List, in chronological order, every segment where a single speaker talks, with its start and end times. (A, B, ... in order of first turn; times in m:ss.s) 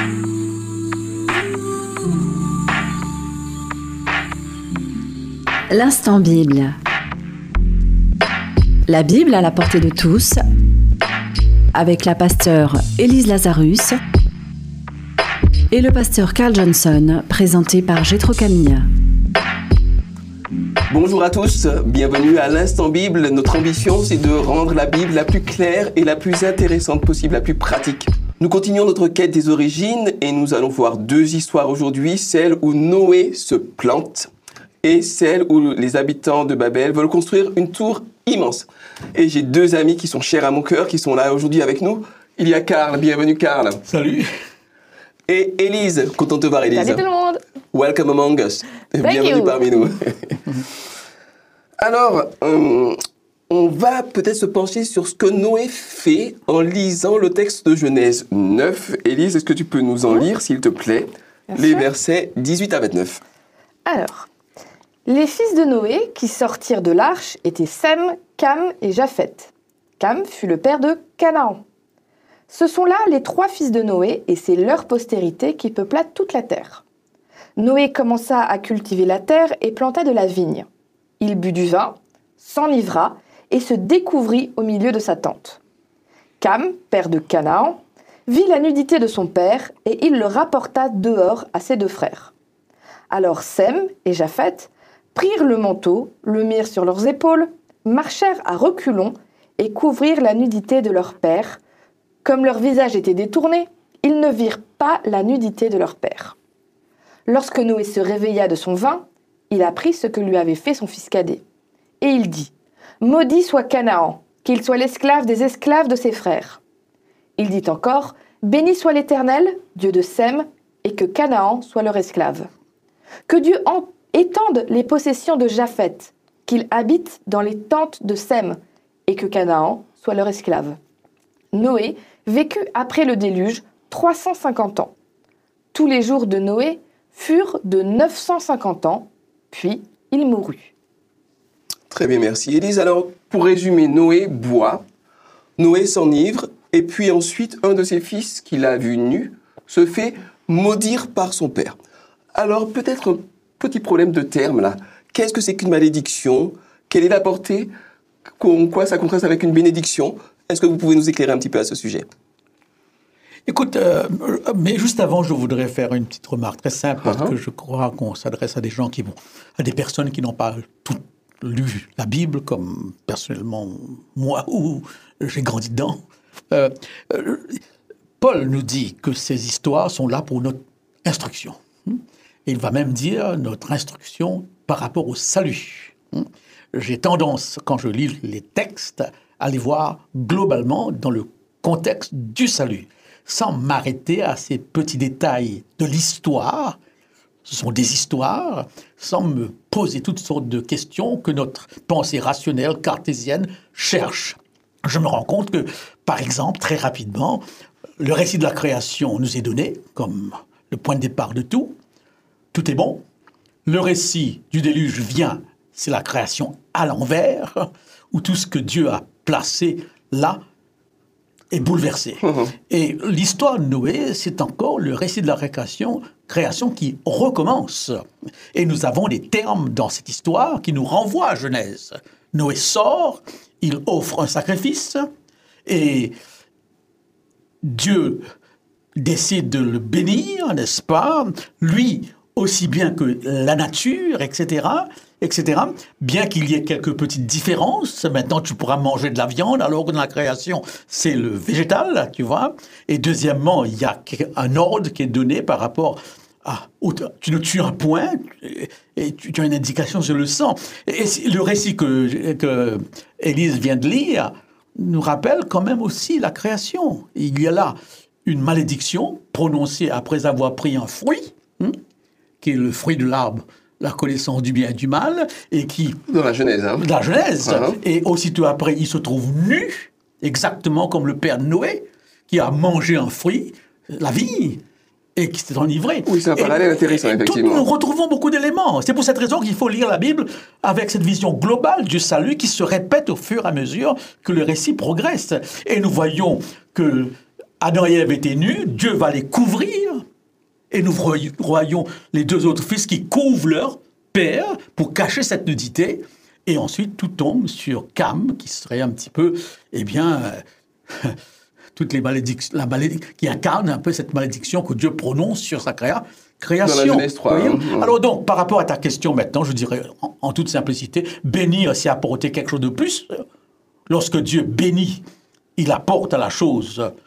0:05.7-0:06.8 A
0:08.9-0:10.4 A
0:11.7-0:14.0 A
0:15.7-0:18.9 A
0:20.9-0:34.3 B
0:34.8-0:43.8 B
0:43.9-0:44.3 C
0:45.3-0:47.0 B
0:46.7-0:47.4 D
0:47.7-0:50.4 B
0:49.0-0:49.9 D
0:51.8-0:53.0 B
0:53.5-1:03.2 B
1:01.5-1:01.8 D
1:03.9-1:04.3 D
1:05.0-1:11.6 D
1:12.5-1:16.8 D
1:17.6-1:20.7 D
1:21.2-1:25.6 D
1:26.4-1:32.3 D
1:33.1-1:41.6 D
1:42.2-1:46.4 D
1:47.3-1:51.4 D
1:52.0-1:56.6 D
1:57.4-2:02.5 D
2:03.3-2:10.8 D
2:11.5-2:14.9 D
2:15.7-2:20.7 D
2:21.9-2:24.8 B
2:25.6-2:31.8 B
2:32.3-2:37.7 B
2:38.4-2:42.1 B
2:43.5-2:56.0 C
2:47.0-2:47.3 B
2:56.5-2:57.6 C
2:58.2-3:16.8 C
3:17.4-3:27.4 C
3:28.0-3:31.8 C
3:32.5-3:33.0 C
3:33.7-3:40.4 C
3:41.5-3:48.0 C
3:42.3-3:42.5 B
3:48.5-3:55.0 C
3:55.7-3:56.2 C
3:57.6-3:58.2 C
3:59.0-4:31.8 C
4:32.4-4:36.0 C
4:36.1-4:36.8 B
4:36.8-4:44.6 C
4:37.4-4:37.8 B
4:45.2-5:00.0 C
4:46.1-4:47.6 B
5:00.7-5:11.2 C
5:11.8-5:23.2 C
5:16.6-5:17.9 B
5:23.9-5:25.0 C
5:25.6-5:26.9 C